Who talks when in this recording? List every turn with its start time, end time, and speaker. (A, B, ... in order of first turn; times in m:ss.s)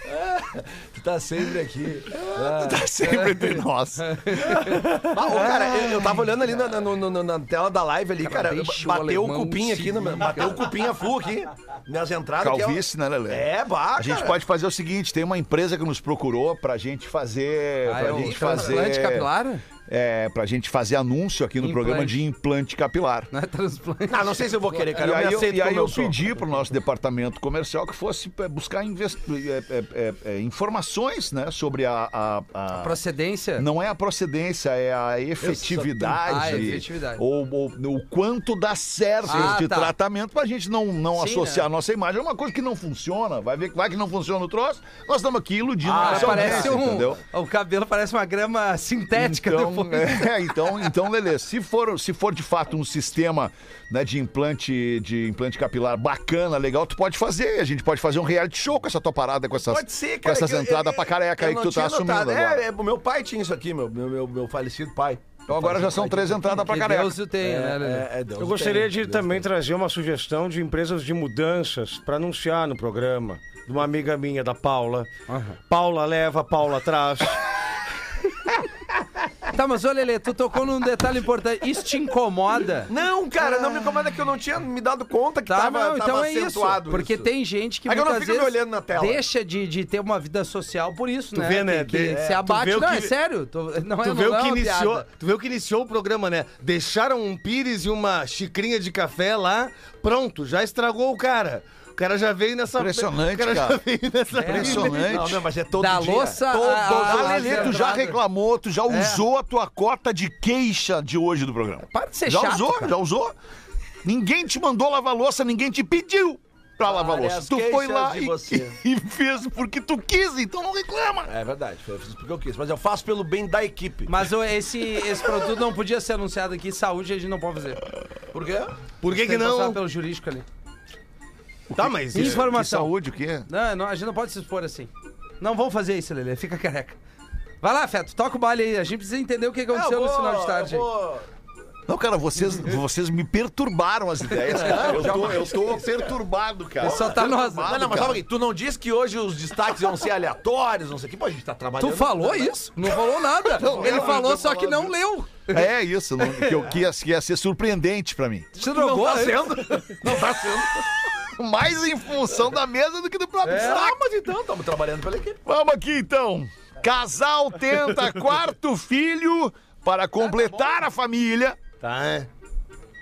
0:00.2-0:02.9 A
0:02.4-0:04.8 B
0:03.1-0:04.8 C
0:04.9-0:14.4 A
0:05.3-0:06.2 B
0:08.2-0:10.6 C
0:12.4-0:19.3 B
0:17.8-0:19.6 C
0:18.1-0:18.8 A
0:19.9-0:23.3 B
0:21.6-0:22.2 C
0:23.3-0:24.8 C
0:24.1-0:26.2 A
0:24.9-0:33.0 B
0:32.7-0:33.6 C
0:33.6-0:47.2 B
0:35.4-0:36.8 A
0:36.2-0:37.2 C
0:39.2-0:39.9 C
0:41.1-0:41.6 C
0:45.8-0:47.1 A
0:45.9-0:50.3 C
0:49.1-1:02.6 B
0:59.6-1:06.6 A
1:05.5-1:07.2 B
1:06.5-1:08.0 C
1:07.4-1:09.4 A
1:08.4-1:15.1 D
1:15.3-1:15.6 C
1:15.6-1:17.4 D
1:19.5-1:22.9 C
1:22.9-1:27.3 A
1:25.5-1:35.0 C
1:27.8-1:29.2 A
1:31.3-1:33.1 D
1:34.0-1:45.0 D
1:42.8-1:43.8 B
1:44.4-1:45.1 C
1:44.4-1:45.4 B
1:44.8-1:47.8 A
1:45.8-1:48.2 C
1:46.5-1:53.3 B
1:48.9-1:49.2 C
1:51.8-1:52.9 C
1:54.0-2:01.3 B
1:56.8-1:58.7 A
2:01.3-2:04.1 A
2:04.1-2:07.8 C
2:08.3-2:08.7 A
2:09.0-2:09.8 D
2:09.1-2:10.4 C
2:11.7-2:13.5 B
2:11.8-2:12.4 D
2:12.1-2:12.9 C
2:13.5-2:14.9 C
2:15.4-2:17.0 C
2:17.6-2:20.9 C
2:19.7-2:21.2 A
2:21.9-2:28.2 B
2:24.4-2:26.1 A
2:26.8-2:27.8 C
2:26.8-2:32.5 A
2:31.8-2:35.7 C
2:33.5-2:34.3 B
2:33.5-2:34.9 A
2:35.5-2:38.5 B
2:36.2-2:36.7 C
2:38.6-2:39.6 C
2:38.6-2:40.9 A
2:41.2-2:44.0 B
2:43.4-2:45.4 A
2:43.4-2:43.8 C
2:45.4-2:51.6 B
2:51.8-2:52.3 D